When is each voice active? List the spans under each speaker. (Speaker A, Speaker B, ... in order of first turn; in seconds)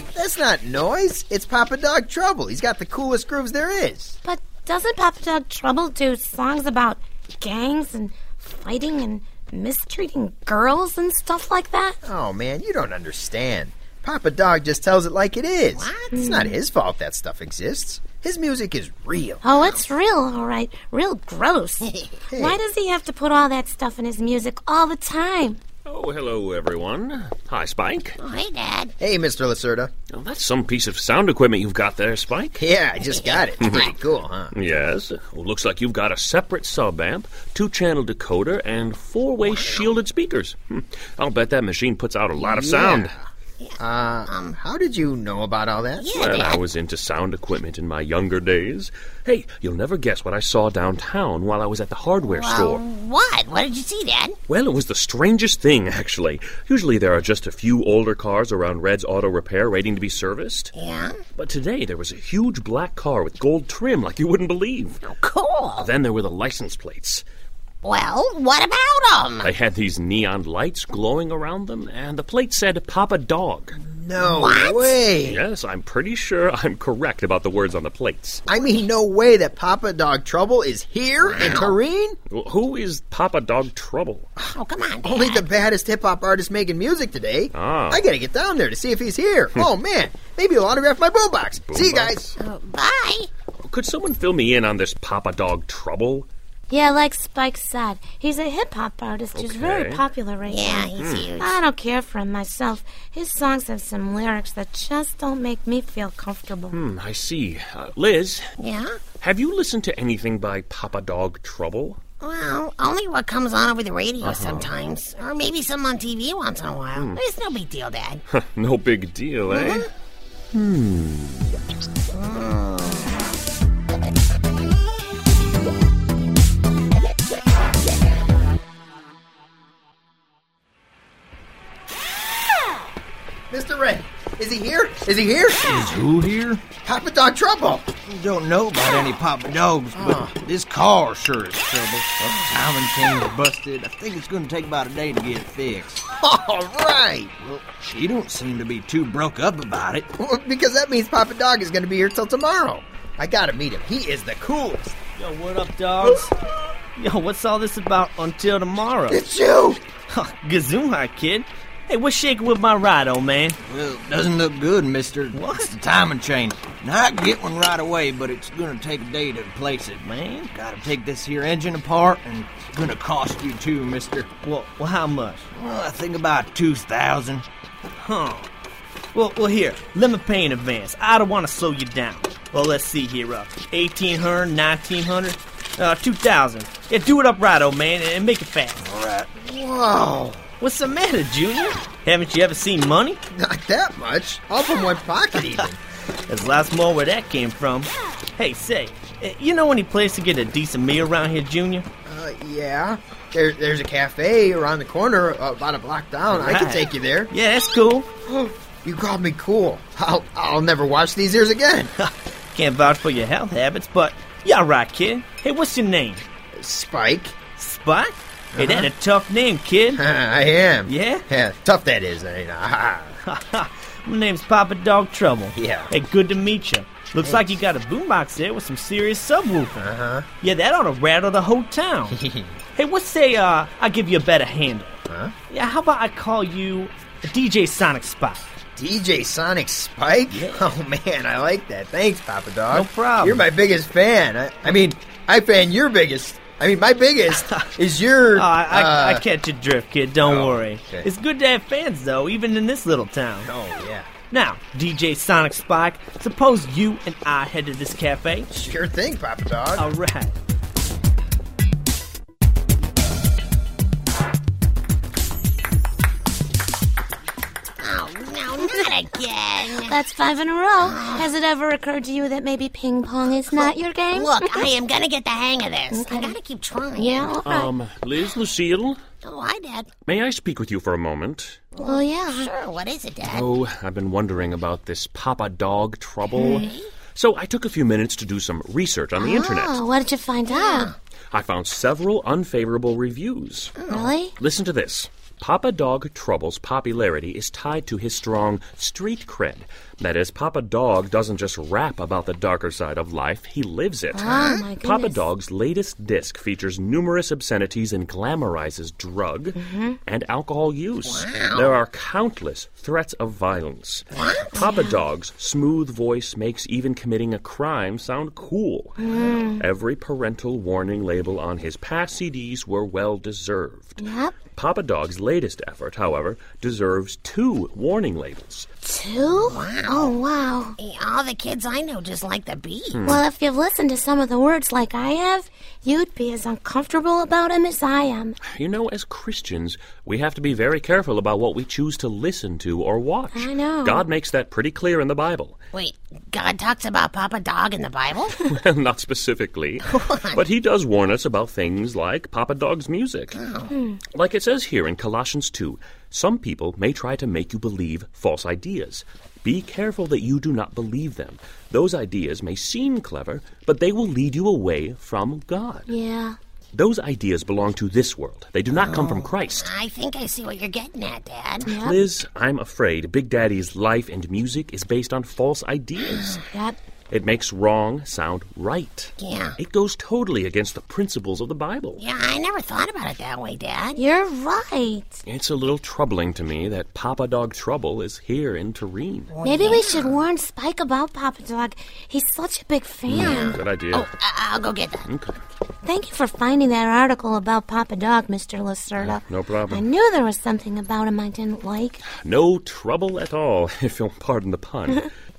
Speaker A: 0.1-4.2, 12.0-19.4, 22.3-22.6, 29.0-29.9, 32.5-34.5, 42.4-43.2, 43.8-46.1, 73.8-75.4, 78.5-82.2, 85.0-92.3, 133.5-136.0, 136.8-137.9, 139.9-140.3, 146.1-147.3, 150.2-154.9, 159.1-159.8, 188.8-190.4, 193.3-195.8, 202.1-207.3, 208.2-211.9, 216.5-217.4, 218.5-218.9, 219.9-223.2, 225.5-225.9, 227.2-227.6, 229.7-230.3, 232.1-232.6, 238.8-249.2, 250.2-251.1, 253.4-254.1, 258.5-259.9
Speaker B: 4.2-12.0, 16.1-16.6, 19.4-25.6, 96.7-106.8, 269.7-274.7, 275.9-276.4, 276.9-277.7, 281.8-282.5, 289.2-290.9, 293.9-294.4, 304.1-305.2, 309.5-310.0, 314.5-315.0, 319.0-319.6, 324.0-324.4, 328.8-330.8, 333.0-338.4, 343.3-344.0, 353.7-354.0, 365.9-366.4, 371.7-372.1, 376.5-376.8, 384.0-385.2, 389.4-393.6, 395.8-402.1
Speaker C: 15.7-16.2, 19.6-19.9, 21.8-22.2, 28.2-28.9, 33.1-33.9, 39.5-39.9, 44.3-44.5, 46.0-46.6, 52.3-54.3, 60.8-61.2, 65.0-65.9, 67.8-69.5, 74.2-75.0, 81.2-81.8, 84.5-85.4, 92.4-93.3, 100.4-101.6, 108.6-109.0, 112.2-118.2, 119.5-119.8, 122.1-123.0, 267.8-270.0, 270.9-271.3, 273.5-277.4, 279.2-279.9, 281.8-283.5, 286.3-286.9, 290.5-290.9, 293.8-294.1, 304.3-304.6, 311.1-311.7, 314.1-314.5, 329.3-330.2, 330.8-333.1, 345.7-348.3, 349.9-350.4, 353.3-353.7, 368.8-371.7, 376.0-376.4, 379.2-379.5, 382.0-384.0, 389.4-390.2, 393.1-395.1
Speaker D: 25.8-28.1, 30.1-32.6, 33.6-33.9, 34.5-43.1, 46.1-52.8, 54.5-60.7, 61.4-65.0, 65.8-67.2, 69.4-73.8, 75.2-78.4, 82.3-84.3, 87.5-88.0, 91.6-92.3, 93.6-96.3, 99.3-100.0, 101.0-101.3, 106.7-108.4, 109.2-112.0, 114.2-114.8, 118.3-119.9, 120.5-121.5, 277.4-279.0, 280.1-281.6, 283.2-289.8, 291.3-328.7, 332.9-333.2, 338.5-345.6, 348.4-353.4, 354.1-365.9, 366.7-369.7, 371.6-376.4, 377.1-382.0, 385.2-389.3, 393.1-394.1, 395.0-395.4, 399.0-399.9, 402.1-405.1
Speaker E: 135.7-136.6, 138.1-146.0, 147.4-150.1, 163.7-174.3, 175.5-177.4
Speaker F: 155.2-156.3, 156.9-159.2, 160.1-163.6, 165.3-165.7, 170.0-170.5, 174.4-175.4, 178.0-178.5, 179.1-188.8, 190.6-193.2, 196.3-201.8, 206.3-208.1, 212.0-216.2, 217.6-220.0, 220.8-221.2, 223.2-229.8, 230.4-232.2, 232.8-235.0, 235.5-238.4, 240.3-240.7, 242.7-243.4, 247.3-247.6, 248.3-253.5, 254.3-258.5, 259.8-260.4